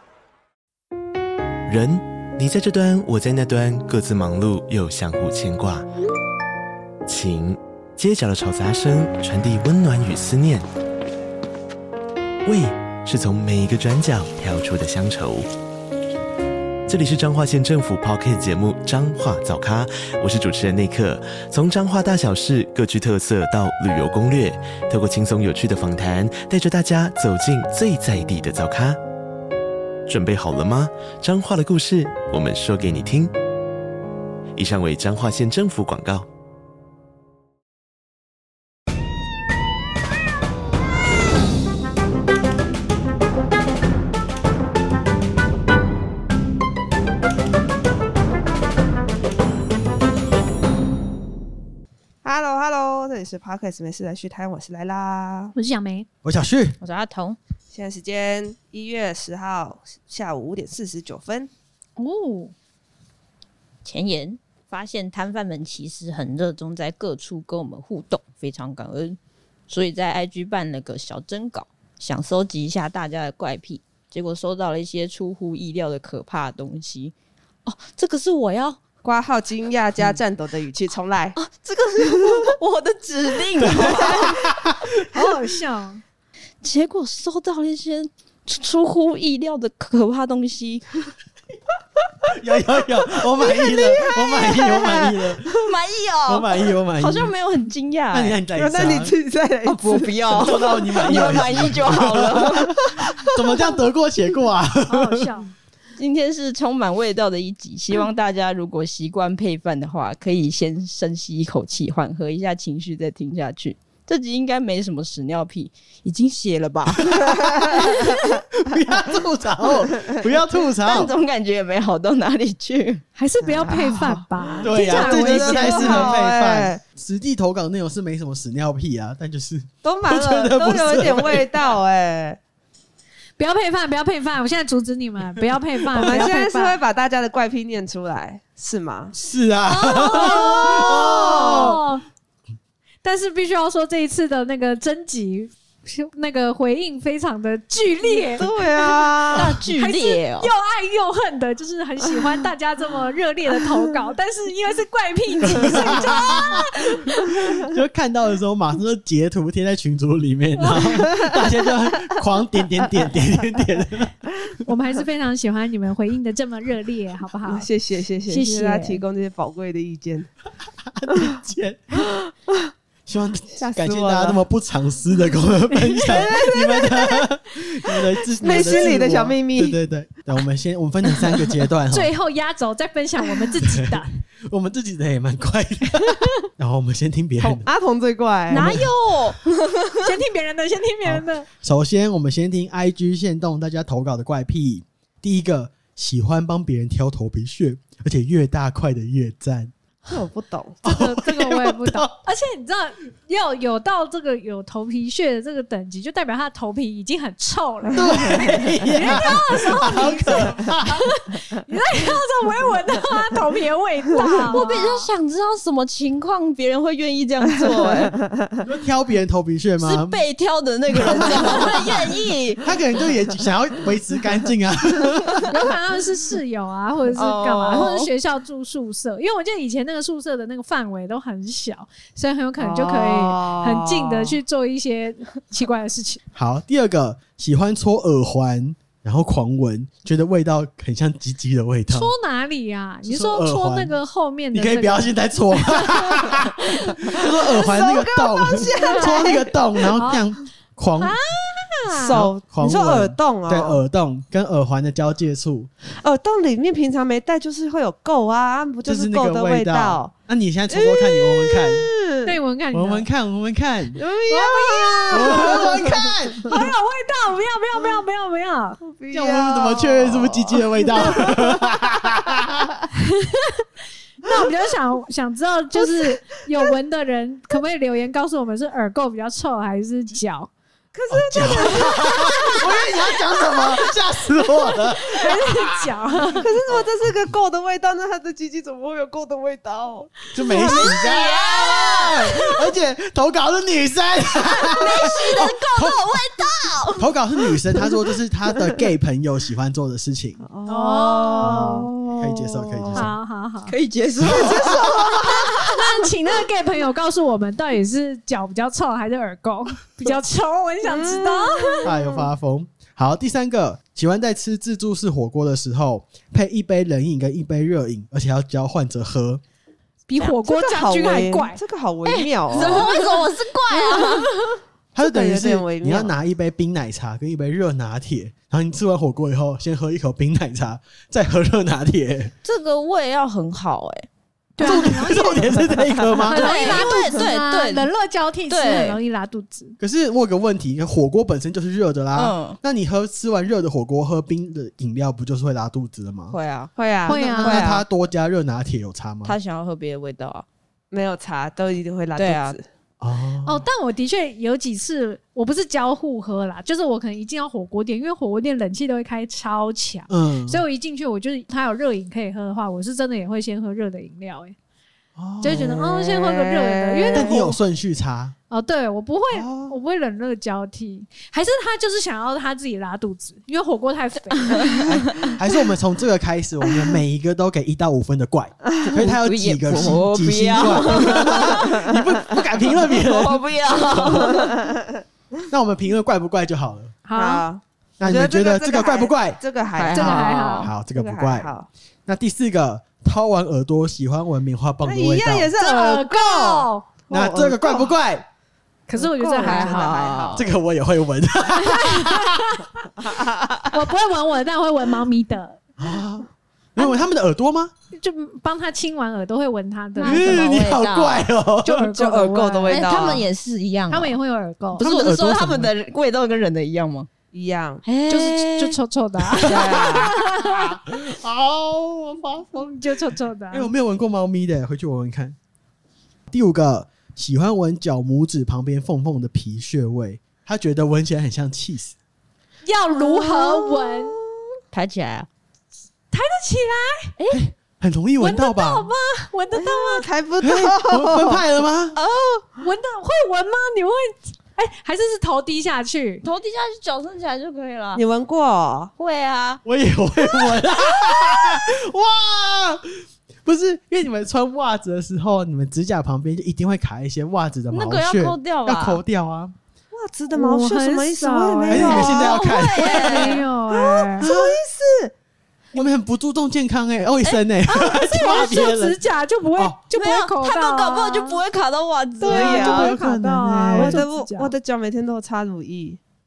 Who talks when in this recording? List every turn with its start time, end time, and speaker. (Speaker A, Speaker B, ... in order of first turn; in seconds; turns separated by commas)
Speaker A: 1.6-5.8, Speaker A: 7.0-10.7, Speaker A: 12.4-15.5, Speaker A: 16.9-29.0, Speaker A: 30.1-33.3, Speaker A: 34.5-36.3, Speaker B: 52.2-55.5, Speaker C: 55.5-56.1, Speaker D: 56.2-56.8, Speaker E: 56.8-57.4, Speaker B: 57.7-61.5, Speaker C: 62.0-62.5, Speaker E: 63.8-69.2, Speaker E: 69.7-77.1, Speaker E: 77.7-78.8, Speaker B: 79.0-81.4, Speaker E: 81.3-84.5, Speaker B: 82.2-82.5, Speaker D: 83.6-85.3, Speaker C: 85.1-86.0, Speaker E: 86.6-90.8, Speaker D: 92.3-95.5, Speaker B: 93.5-95.4, Speaker E: 95.5-98.4, Speaker D: 96.3-97.3, Speaker D: 98.1-99.1, Speaker B: 98.5-101.4, Speaker E: 99.6-102.8, Speaker D: 100.3-105.3, Speaker B: 102.5-103.7, Speaker C: 104.8-105.5, Speaker E: 106.0-118.3, Speaker D: 117.1-118.0, Speaker B: 117.4-118.4, Speaker D: 118.6-121.1, Speaker E: 120.8-123.0, Speaker C: 123.2-126.2, Speaker B: 123.4-126.8, Speaker D: 124.6-131.5, Speaker B: 129.8-132.4, Speaker C: 133.4-136.8, Speaker B: 136.0-139.1, Speaker D: 139.1-141.8, Speaker C: 139.7-142.0, Speaker B: 140.7-141.8, Speaker C: 143.0-148.5, Speaker B: 148.1-149.5, Speaker E: 149.3-150.5, Speaker C: 149.7-157.4, Speaker D: 155.4-156.6, Speaker D: 157.5-164.2, Speaker B: 160.9-161.4, Speaker C: 164.6-167.7, Speaker B: 167.4-170.3, Speaker C: 168.3-169.0, Speaker D: 170.8-172.1, Speaker B: 171.9-172.7, Speaker D: 173.1-182.1, Speaker B: 173.6-174.4, Speaker B: 175.9-177.2, Speaker B: 178.4-179.8, Speaker C: 178.4-179.0, Speaker C: 181.9-184.1, Speaker D: 183.6-187.6, Speaker B: 187.4-188.8, Speaker E: 188.5-190.0, Speaker D: 188.6-189.3, Speaker C: 190.0-191.5, Speaker D: 191.0-199.7, Speaker B: 200.1-200.8, Speaker D: 200.8-202.2, Speaker C: 200.8-215.1, Speaker B: 207.9-208.5, Speaker D: 207.9-211.1, Speaker E: 214.5-218.2, Speaker B: 218.0-218.4, Speaker D: 218.6-220.2, Speaker E: 219.8-222.6, Speaker D: 220.9-225.5, Speaker C: 225.5-236.2, Speaker E: 227.1-228.1, Speaker B: 232.6-234.4, Speaker D: 236.3-242.1, Speaker C: 241.9-246.5, Speaker D: 243.0-243.9, Speaker D: 244.5-251.2, Speaker B: 247.2-249.5, Speaker C: 248.7-249.3, Speaker C: 249.9-250.2, Speaker C: 251.0-252.2, Speaker D: 251.9-255.7, Speaker B: 252.0-253.8, Speaker B: 256.0-260.1, Speaker D: 258.8-261.9, Speaker B: 260.7-262.3, Speaker C: 262.2-263.1, Speaker D: 262.7-264.0, Speaker B: 263.9-266.1, Speaker C: 264.3-265.8, Speaker D: 265.1-266.7, Speaker C: 266.4-268.8, Speaker B: 268.8-272.6, Speaker D: 269.1-272.7, Speaker C: 273.1-273.5, Speaker C: 274.2-280.5, Speaker B: 275.8-276.7, Speaker B: 280.9-283.9, Speaker D: 281.1-285.9, Speaker C: 285.1-286.5, Speaker B: 286.4-290.2, Speaker D: 290.3-296.2, Speaker E: 290.5-292.3, Speaker C: 290.5-291.0, Speaker E: 294.7-297.1, Speaker D: 297.0-300.4, Speaker B: 300.4-301.8, Speaker C: 300.7-303.7, Speaker D: 301.4-303.1, Speaker B: 302.8-303.1, Speaker E: 303.7-304.9, Speaker D: 304.2-305.1, Speaker B: 304.3-305.1, Speaker C: 304.8-311.9, Speaker B: 310.8-312.3, Speaker D: 311.8-319.4, Speaker C: 320.1-321.6, Speaker B: 320.4-322.9, Speaker E: 322.0-324.3, Speaker C: 322.5-324.6, Speaker D: 324.9-332.3, Speaker B: 325.0-326.1, Speaker E: 332.4-334.1, Speaker C: 334.6-335.5, Speaker D: 334.6-336.4, Speaker C: 336.3-339.8, Speaker E: 336.3-337.9, Speaker E: 338.5-339.0, Speaker D: 339.8-346.4, Speaker E: 342.1-342.6, Speaker E: 346.3-346.7, Speaker B: 346.8-347.8, Speaker C: 347.1-347.7, Speaker D: 347.1-349.3, Speaker E: 349.2-350.4, Speaker B: 350.9-352.6, Speaker E: 352.1-352.5, Speaker D: 353.0-353.6, Speaker C: 353.4-364.6, Speaker D: 360.1-360.6, Speaker D: 365.1-365.9, Speaker C: 365.4-367.5, Speaker B: 365.8-367.5, Speaker D: 367.1-368.3, Speaker C: 368.5-374.7, Speaker D: 369.3-369.8, Speaker D: 374.8-384.5, Speaker E: 378.9-381.9, Speaker B: 381.1-381.6, Speaker E: 382.6-384.6, Speaker B: 384.4-384.9, Speaker D: 385.5-387.0, Speaker C: 387.0-387.4, Speaker B: 387.1-390.2, Speaker D: 388.0-389.4, Speaker E: 389.7-390.7, Speaker C: 389.9-390.7, Speaker D: 389.9-391.5, Speaker B: 390.9-391.7, Speaker D: 392.1-395.5, Speaker B: 394.8-397.9, Speaker C: 395.6-396.9, Speaker D: 397.1-398.3, Speaker C: 398.9-400.1, Speaker B: 398.9-400.5, Speaker E: 399.4-400.5, Speaker D: 400.3-402.6, Speaker C: 401.5-402.9, Speaker B: 403.1-403.5, Speaker C: 403.7-405.6, Speaker D: 405.8-407.7, Speaker C: 407.9-410.6, Speaker E: 410.0-411.3, Speaker D: 410.0-411.9, Speaker C: 411.6-412.8, Speaker B: 411.9-413.2, Speaker E: 412.7-414.1, Speaker C: 413.9-414.8, Speaker D: 414.8-415.7, Speaker E: 414.8-417.1, Speaker B: 417.3-417.8, Speaker E: 417.8-418.8, Speaker C: 418.1-420.7, Speaker D: 419.4-423.0, Speaker B: 419.4-420.1, Speaker C: 422.5-423.7, Speaker D: 423.5-425.4, Speaker D: 426.3-431.9, Speaker C: 432.6-434.2, Speaker B: 432.9-434.2, Speaker E: 434.7-435.3, Speaker C: 436.1-437.1, Speaker D: 437.3-438.9, Speaker C: 438.2-440.1, Speaker B: 439.5-441.4, Speaker D: 440.4-441.9, Speaker E: 441.9-442.5, Speaker C: 442.6-446.2, Speaker E: 446.2-448.0, Speaker B: 447.9-448.9, Speaker E: 449.0-449.6, Speaker D: 449.6-459.5, Speaker E: 457.7-459.0, Speaker B: 459.9-462.4, Speaker C: 460.3-464.3, Speaker D: 461.7-463.4, Speaker E: 462.0-463.4, Speaker B: 463.2-465.1, Speaker D: 464.2-464.6, Speaker D: 465.7-469.0, Speaker C: 467.7-471.4, Speaker E: 469.9-472.9, Speaker C: 472.2-474.5, Speaker B: 472.2-472.6, Speaker D: 472.2-474.0, Speaker B: 473.8-476.0